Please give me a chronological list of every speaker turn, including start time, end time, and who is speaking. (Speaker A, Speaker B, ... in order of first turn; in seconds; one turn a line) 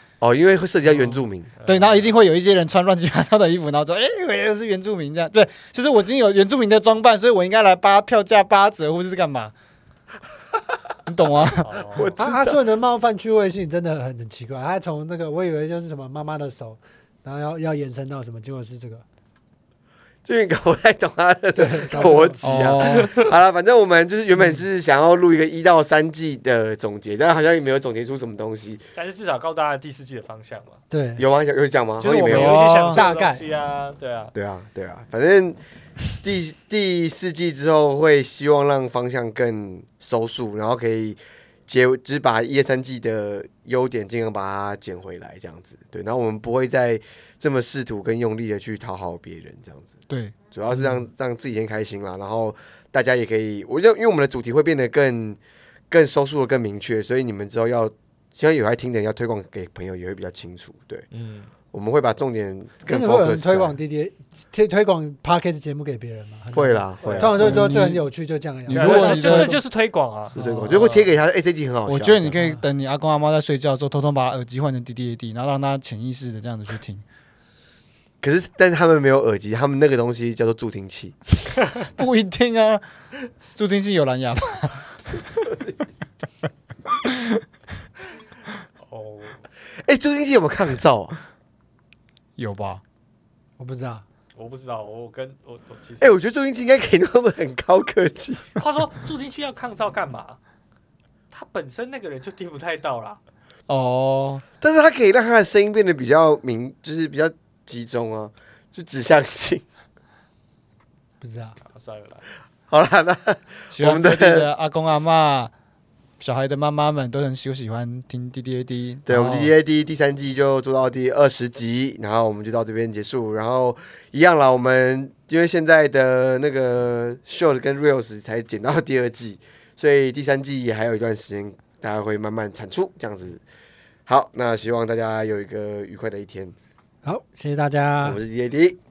Speaker A: 0.2-1.5
Speaker B: 0.9-2.1
Speaker C: 1.6-9.5
Speaker C: 11.1-11.9
Speaker B: 11.6-12.2
Speaker A: 11.9-12.6
Speaker D: 12.2-19.0
Speaker A: 20.2-28.8
Speaker D: 21.6-22.6
Speaker C: 22.4-23.1
Speaker B: 28.9-30.8
Speaker D: 30.9-31.2
Speaker A: 31.2-32.5
Speaker D: 32.0-33.4
Speaker B: 32.0-34.3
Speaker C: 32.3-33.0
Speaker A: 34.3-35.6
Speaker A: 36.1-49.9
Speaker C: 50.1-50.3
Speaker A: 50.5-55.4
Speaker A: 55.9-61.0
Speaker B: 61.1-61.5
Speaker A: 61.7-63.8
Speaker D: 62.9-69.6
Speaker A: 66.5-67.5
Speaker B: 67.0-67.4
Speaker C: 67.4-68.0
Speaker C: 68.7-69.5
Speaker B: 68.7-71.1
Speaker C: 70.3-70.7
Speaker A: 70.3-72.4
Speaker D: 70.4-70.7
Speaker C: 71.8-77.0
Speaker A: 78.2-81.2
Speaker C: 82.0-82.8
Speaker C: 83.5-84.9
Speaker C: 87.1-87.4
Speaker B: 88.8-89.4
Speaker A: 89.8-91.2
Speaker C: 92.4-92.8
Speaker D: 93.6-94.0
Speaker B: 94.3-96.2
Speaker A: 96.0-98.5
Speaker B: 98.5-100.4
Speaker B: 101.3-103.2
Speaker C: 103.7-104.4
Speaker A: 104.6-109.6
Speaker D: 111.2-111.6
Speaker B: 111.6-112.2
Speaker A: 112.7-114.5
Speaker C: 113.7-115.5
Speaker C: 116.2-119.5
Speaker A: 119.1-133.4
Speaker A: 134.1-136.5
Speaker D: 137.0-138.2
Speaker A: 138.0-138.8